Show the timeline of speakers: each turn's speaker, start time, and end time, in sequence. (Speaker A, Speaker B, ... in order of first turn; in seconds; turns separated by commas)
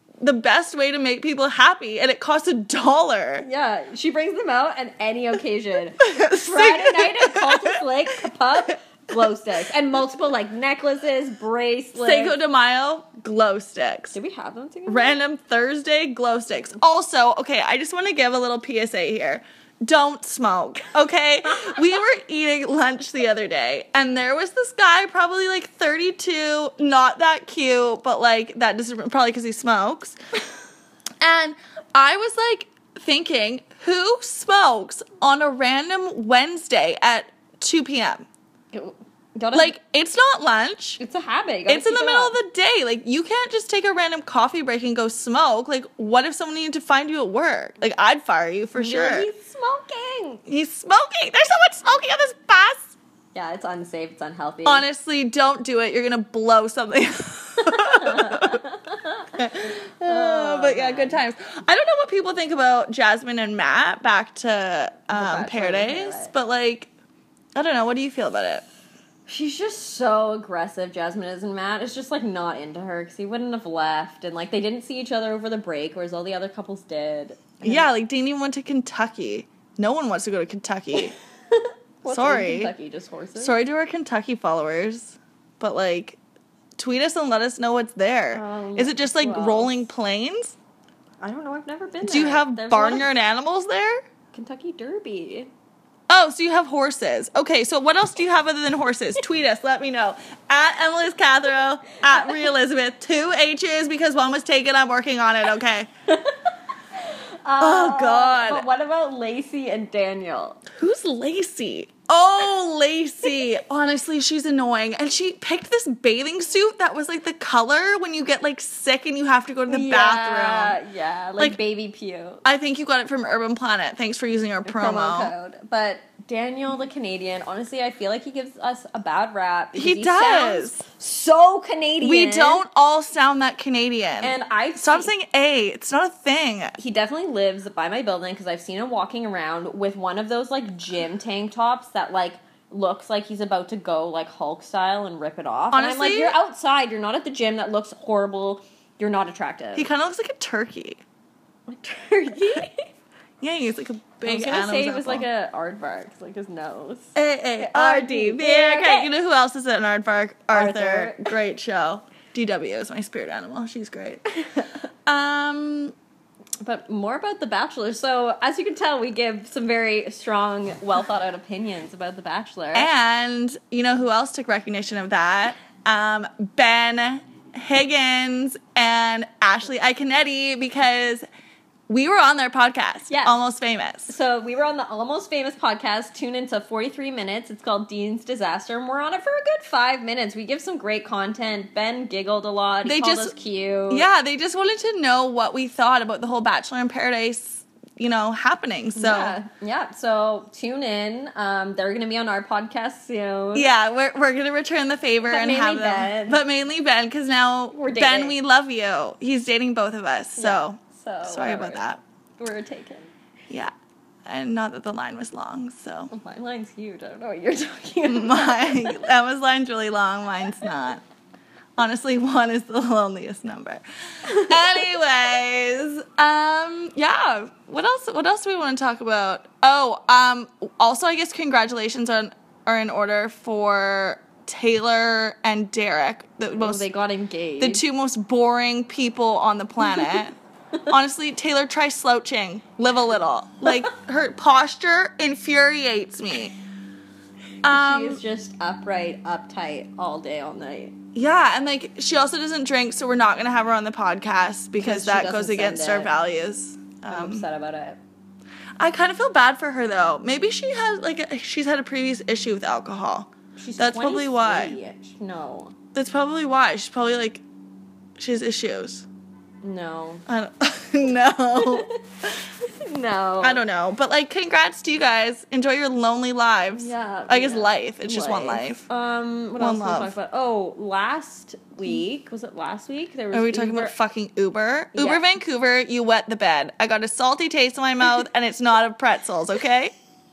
Speaker A: 0.2-3.4, Speaker B: 3.4-12.3, Speaker A: 6.0-7.8, Speaker A: 11.9-14.2, Speaker B: 14.1-15.2, Speaker A: 14.9-30.2, Speaker A: 31.2-38.2, Speaker B: 38.7-39.7, Speaker A: 39.5-41.0, Speaker B: 41.0-42.4, Speaker A: 41.7-49.3, Speaker B: 48.7-50.4, Speaker A: 50.5-52.9, Speaker B: 53.3-54.8, Speaker A: 54.6-58.6, Speaker B: 57.6-59.4, Speaker A: 59.3-66.9, Speaker B: 60.0-61.2, Speaker B: 65.1-66.3, Speaker A: 67.5-68.6, Speaker B: 69.3-77.9, Speaker A: 77.6-81.1, Speaker B: 81.5-83.5, Speaker A: 82.1-82.7, Speaker A: 83.4-86.2, Speaker A: 86.8-90.5, Speaker B: 88.3-89.9, Speaker B: 91.2-93.1, Speaker A: 92.0-94.0, Speaker B: 94.3-95.5, Speaker A: 96.1-105.9, Speaker B: 102.1-102.5, Speaker B: 106.1-110.6, Speaker A: 107.6-108.7, Speaker A: 110.7-120.8, Speaker B: 119.7-122.4, Speaker A: 122.4-125.3, Speaker B: 124.6-132.6, Speaker A: 129.8-130.8, Speaker A: 132.0-136.8, Speaker B: 134.2-135.1, Speaker B: 136.8-149.9, Speaker A: 145.7-146.3, Speaker A: 149.8-151.0, Speaker B: 151.7-152.8, Speaker A: 153.4-155.2, Speaker B: 154.2-159.1, Speaker A: 157.1-164.2, Speaker B: 160.5-161.3, Speaker A: 165.1-165.9, Speaker B: 166.6-172.9, Speaker A: 172.7-181.2, Speaker A: 181.9-184.1, Speaker B: 183.1-183.4, Speaker B: 184.1-194.1, Speaker A: 192.8-193.3, Speaker A: 193.9-199.4, Speaker B: 198.9-203.7, Speaker A: 203.5-212.0, Speaker B: 205.3-206.4, Speaker B: 207.7-208.4, Speaker B: 210.4-211.8, Speaker B: 212.4-213.1, Speaker A: 214.2-216.1, Speaker B: 216.1-219.1, Speaker A: 218.1-221.0, Speaker A: 221.8-236.8, Speaker B: 236.5-237.8, Speaker A: 237.6-240.3, Speaker B: 239.8-240.2, Speaker A: 240.9-246.5, Speaker A: 247.6-248.2, Speaker B: 247.7-251.0, Speaker A: 251.1-257.4, Speaker B: 254.8-256.1, Speaker B: 257.1-258.0, Speaker A: 258.8-264.8, Speaker B: 263.6-265.8, Speaker A: 265.9-267.4, Speaker A: 268.2-269.1, Speaker B: 269.6-270.2, Speaker A: 270.3-271.9, Speaker B: 271.6-272.0, Speaker B: 272.6-273.6, Speaker A: 273.4-278.9, Speaker B: 276.8-283.9, Speaker A: 279.6-280.1, Speaker A: 283.3-289.9, Speaker B: 284.9-285.2